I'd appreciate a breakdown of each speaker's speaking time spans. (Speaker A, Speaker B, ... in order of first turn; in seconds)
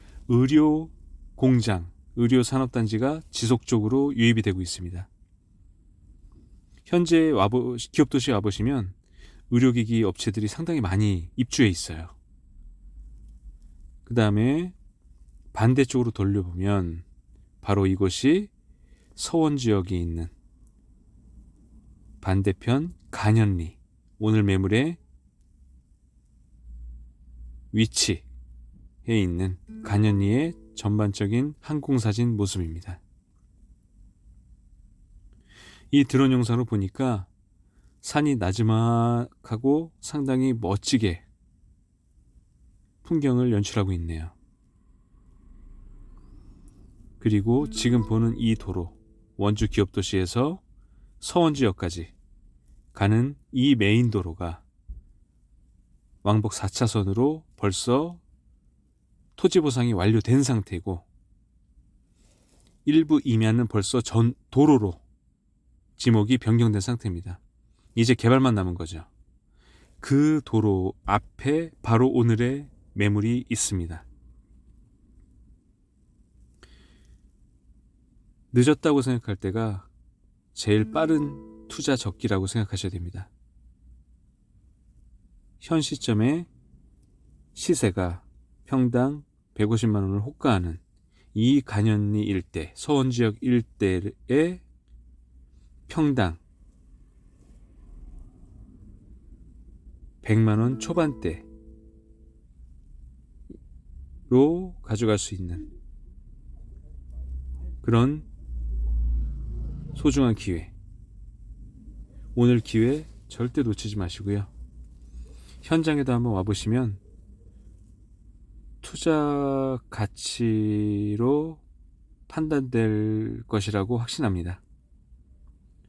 Speaker A: 0.3-5.1, 6.9-8.9, 9.5-12.1, 14.1-14.7, 15.5-17.0, 17.6-18.5, 19.2-20.3, 22.2-25.0, 27.7-28.2, 29.1-33.0, 35.9-37.3, 38.0-41.2, 43.0-44.3, 47.2-50.6, 51.2-52.1, 52.9-54.6, 56.2-58.2, 59.4-61.1, 62.9-65.0, 66.0-67.4, 68.0-69.1, 70.0-74.0, 78.5-79.9, 80.5-83.3, 85.6-86.5, 87.5-90.8, 91.3-94.6, 95.9-96.4, 100.2-101.5, 104.3-105.7, 107.8-108.3, 109.9-110.7, 112.3-114.5, 115.6-117.0, 118.8-121.6, 122.3-124.6